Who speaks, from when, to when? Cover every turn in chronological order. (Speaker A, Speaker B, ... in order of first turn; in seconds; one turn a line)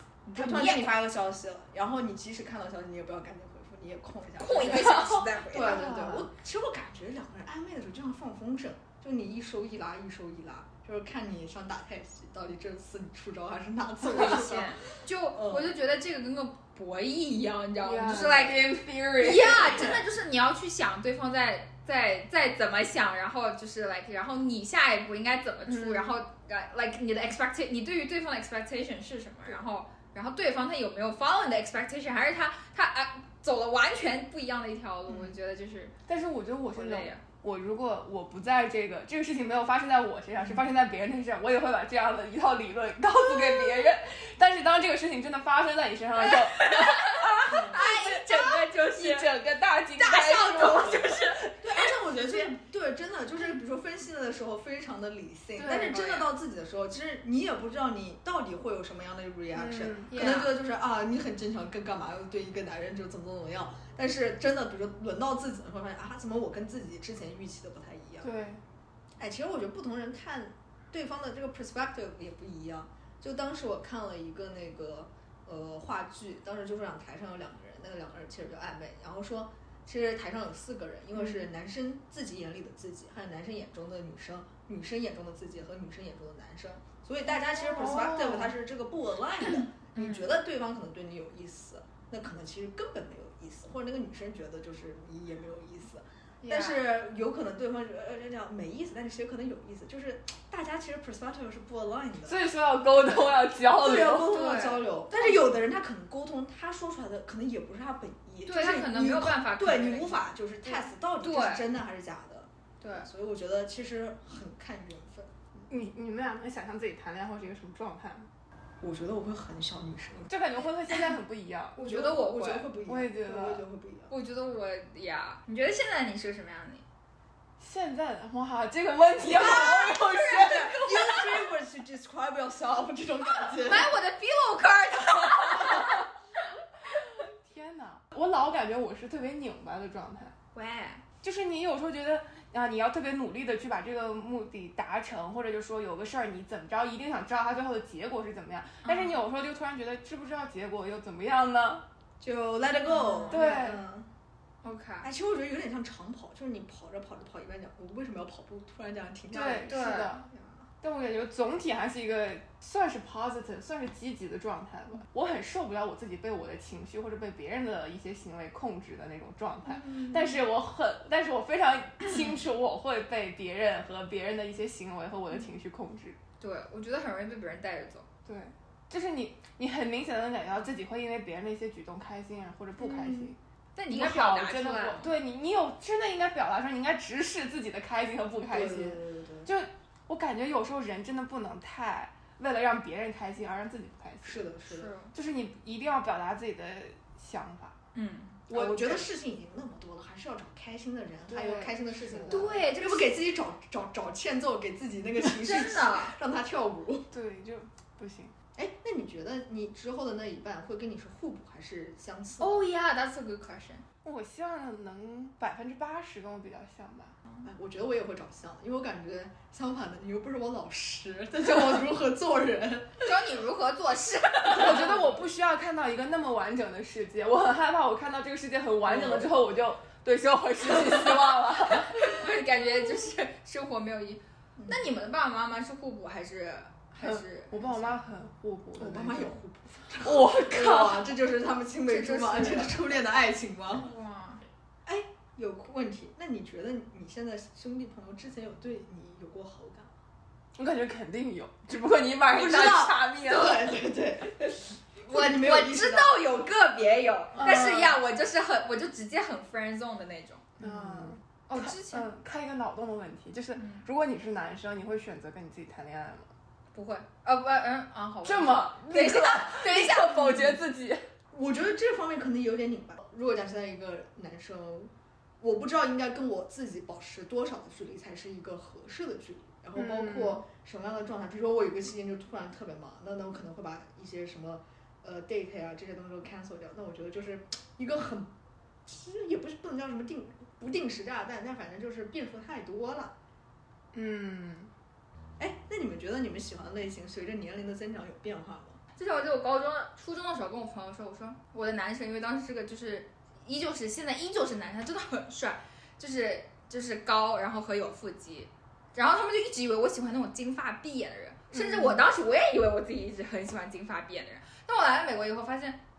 Speaker A: 0.3-0.9
Speaker B: 0.3-14.8
Speaker A: 4.4-5.9
Speaker C: 5.5-6.3
Speaker A: 14.0-36.0
Speaker B: 15.3-15.8
Speaker C: 17.8-20.0
Speaker C: 25.7-26.2
Speaker B: 35.1-35.4
Speaker C: 36.1-51.5
Speaker A: 36.7-37.2
Speaker A: 43.2-43.9
Speaker A: 46.2-49.3
Speaker B: 47.5-47.8
Speaker A: 50.0-51.8
Speaker B: 51.6-68.3
Speaker C: 55.6-56.0
Speaker A: 55.9-56.3
Speaker C: 59.5-60.2
Speaker A: 60.1-60.5
Speaker C: 68.2-68.6
Speaker B: 69.2-102.4
Speaker C: 87.6-88.5
Speaker A: 90.0-90.3
Speaker A: 96.4-96.8
Speaker C: 102.2-104.3
Speaker B: 103.8-115.7
Speaker A: 104.2-105.4
Speaker A: 108.5-111.6
Speaker A: 112.8-113.1
Speaker C: 115.7-118.3
Speaker B: 118.8-120.3
Speaker C: 120.3-121.8
Speaker A: 121.8-122.7
Speaker B: 121.8-124.1
Speaker C: 122.9-123.6
Speaker A: 124.1-126.8
Speaker C: 127.6-130.9
Speaker B: 129.3-133.9
Speaker A: 129.3-131.3
Speaker A: 133.5-136.1
Speaker C: 137.3-140.3
Speaker A: 140.5-141.0
Speaker C: 141.2-151.8
Speaker A: 148.8-149.2
Speaker B: 152.2-154.1
Speaker A: 152.9-153.6
Speaker C: 153.3-153.8
Speaker A: 154.6-155.1
Speaker B: 155.0-160.6
Speaker C: 159.3-160.3
Speaker A: 159.6-160.1
Speaker C: 160.8-176.2
Speaker B: 169.7-170.4
Speaker A: 176.4-178.1
Speaker C: 178.2-183.4
Speaker B: 182.8-183.3
Speaker A: 183.8-185.2
Speaker C: 183.9-194.5
Speaker B: 188.5-189.5
Speaker B: 194.2-194.9
Speaker A: 194.7-195.1
Speaker C: 195.1-197.8
Speaker A: 197.9-198.4
Speaker C: 198.5-199.1
Speaker B: 198.5-207.1
Speaker C: 201.3-202.6
Speaker A: 202.3-203.2
Speaker A: 205.3-206.2
Speaker C: 207.1-208.3
Speaker B: 208.5-212.7
Speaker A: 212.4-213.8
Speaker C: 214.0-217.2
Speaker B: 217.4-223.2
Speaker A: 223.0-225.2
Speaker C: 224.5-232.0
Speaker B: 228.8-229.3
Speaker A: 231.9-237.9
Speaker B: 234.6-234.9
Speaker C: 237.0-241.1
Speaker B: 238.8-243.9
Speaker A: 241.9-243.0
Speaker A: 243.8-244.4
Speaker B: 244.8-249.9
Speaker C: 250.6-253.7
Speaker B: 252.3-256.2
Speaker A: 255.1-260.5
Speaker C: 257.4-257.8
Speaker C: 260.6-266.3
Speaker B: 260.6-261.1
Speaker A: 261.5-262.1
Speaker A: 263.6-263.8
Speaker A: 266.7-270.6
Speaker C: 268.2-271.0
Speaker B: 271.3-288.3
Speaker C: 279.8-280.4
Speaker B: 288.9-293.1
Speaker C: 293.9-294.7
Speaker B: 295.4-298.8
Speaker A: 299.0-315.8